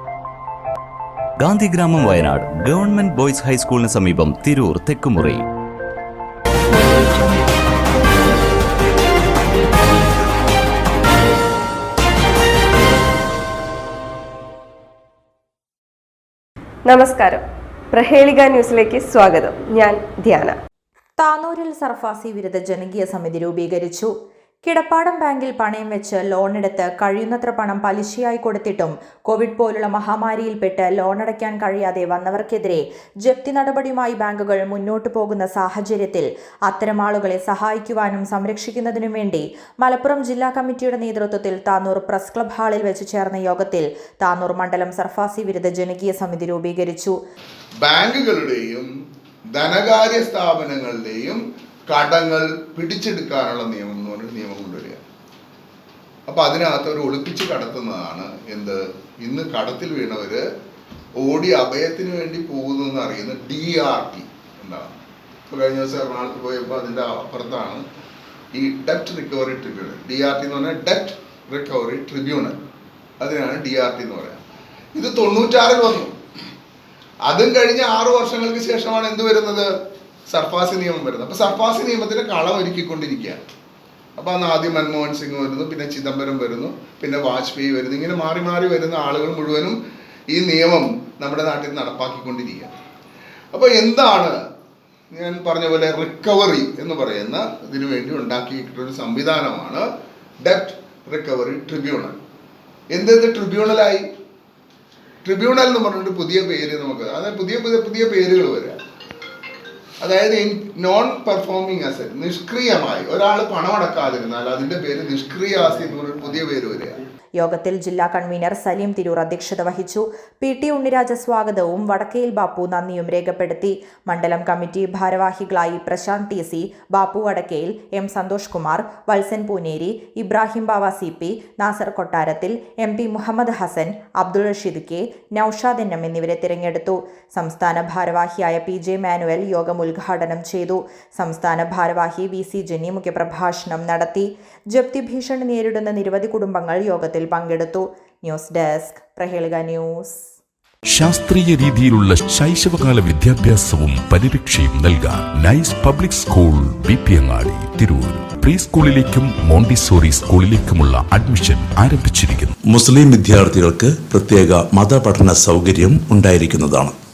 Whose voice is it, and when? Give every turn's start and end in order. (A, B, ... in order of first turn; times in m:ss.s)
0:01.4-0:05.4 A
0:16.8-0:20.6 B
0:21.2-0:24.1 C
0:24.6-0:47.2 C
0:47.8-0:48.9 D
0:49.5-0:55.0 D
0:56.3-1:00.4 D
1:01.2-1:05.0 D
1:05.5-1:07.8 D
1:08.5-1:12.6 D
1:13.2-1:14.4 D
1:14.9-1:16.1 D
1:17.2-1:19.7 D
1:20.3-1:23.4 D
1:24.2-1:29.8 D
1:30.3-1:32.7 D
1:33.5-1:34.3 D
1:35.1-1:39.9 D
1:40.4-1:42.2 D
1:42.9-1:44.0 D
1:45.2-1:48.8 D
1:50.0-1:57.0 D
1:57.4-2:30.2 C
2:30.9-2:42.5 E
2:42.6-2:46.9 F